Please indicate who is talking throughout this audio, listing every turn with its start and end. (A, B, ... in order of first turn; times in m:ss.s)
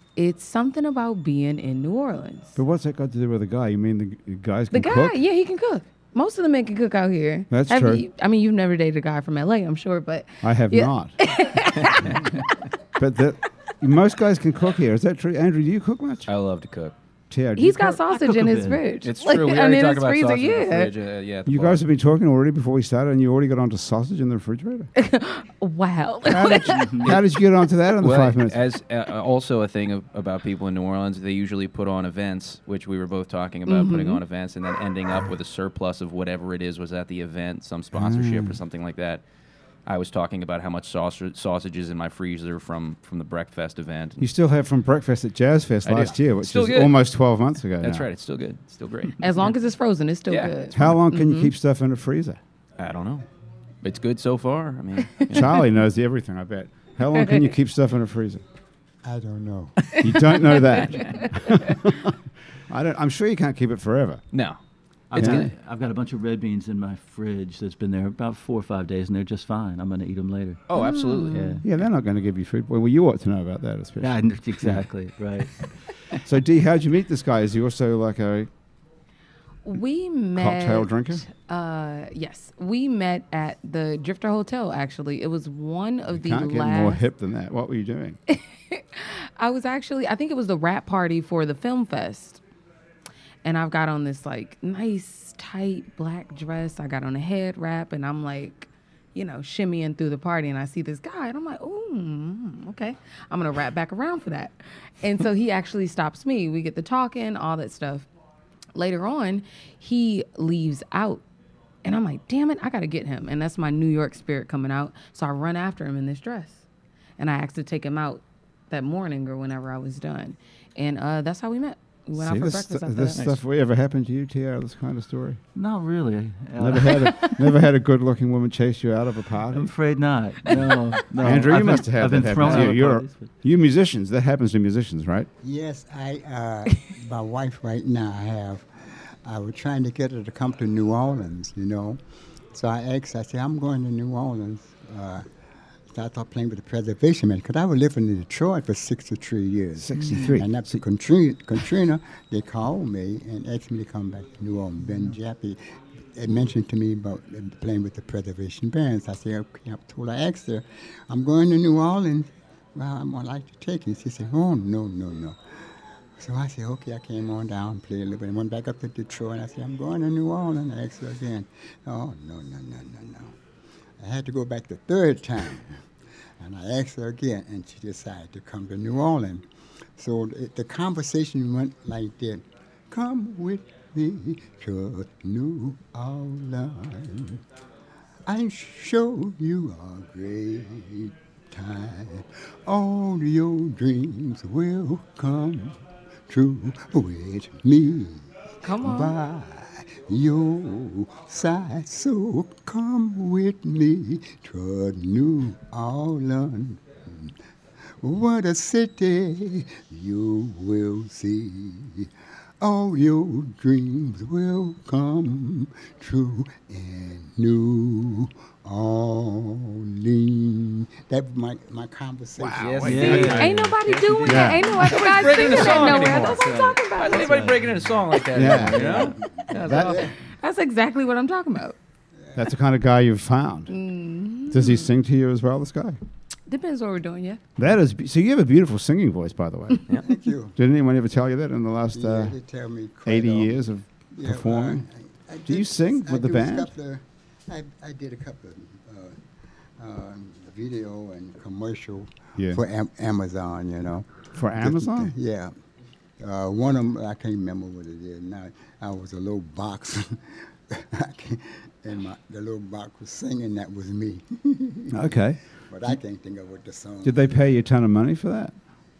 0:00.2-0:02.6 A
0:02.6-0:05.2 B
0:04.7-0:12.4 A
0:07.5-0:08.0 B
0:10.4-0:11.2 B
0:13.0-0:16.3 B
0:16.3-0:16.9 C
0:17.3-0:18.0 B
0:17.6-0:20.9 A
0:18.2-0:18.8 D
0:19.0-0:21.8 C
0:21.4-0:24.9 B
0:25.0-0:27.1 A
0:26.2-0:28.6 B
0:26.8-0:27.1 D
0:28.0-0:39.2 C
0:33.6-0:34.2 A
0:37.9-0:38.6 B
0:39.8-0:44.2 C
0:44.2-0:48.1 B
0:45.8-0:47.0 C
0:47.8-0:49.5 C
0:49.2-0:51.5 A
0:50.3-0:50.5 C
0:50.7-0:52.4 B
0:52.8-0:53.2 C
0:53.8-0:55.6 C
0:55.3-0:58.4 B
0:59.0-1:00.0 E
1:00.0-1:04.2 B
1:04.3-1:04.6 C
1:05.1-1:10.7 D
1:05.1-1:05.5 C
1:05.2-1:05.5 B
1:10.7-1:11.6 C
1:10.7-1:11.6 A
1:11.3-1:11.6 D
1:11.6-1:14.8 B
1:14.0-1:15.7 D
1:16.2-1:18.5 B
1:19.6-1:27.0 A
1:20.4-1:21.2 B
1:26.1-1:28.2 B
1:28.3-1:32.4 A
1:33.4-1:48.1 A
1:48.7-1:51.2 A
1:51.8-1:56.6 A
1:57.2-2:03.2 A
2:02.1-2:05.4 B
2:05.5-2:07.5 D
2:06.6-2:09.7 B
2:09.5-2:13.3 D
2:10.5-2:15.3 B
2:15.4-2:22.0 E
2:22.5-2:25.3 E
2:25.9-2:35.6 E
2:29.8-2:30.8 B
2:36.1-2:53.3 E
2:54.0-2:55.8 E
2:56.4-2:59.4 E
3:00.0-3:07.4 E
3:08.2-3:27.3 E
3:18.6-3:19.2 A
3:28.0-3:43.3 E
3:42.4-3:43.5 B
3:42.6-3:50.1 C
3:42.8-3:46.4 D
3:43.1-3:47.5 A
3:44.2-3:44.7 B
3:47.0-3:49.2 D
3:48.3-3:50.1 B
3:49.2-3:50.1 E
3:50.2-3:51.8 A
3:52.2-3:52.4 E
3:52.4-3:53.7 B
3:53.7-3:54.9 A
3:54.5-3:56.0 B
3:56.5-3:57.4 A
3:57.6-4:00.0 B
4:00.0-4:00.6 E
4:00.6-4:02.4 B
4:01.9-4:09.2 E
4:03.0-4:04.8 B
4:05.4-4:06.7 B
4:09.8-4:15.5 E
4:12.4-4:12.6 B
4:14.3-4:15.1 B
4:16.2-4:27.2 E
4:24.9-4:26.0 B
4:27.0-4:28.6 B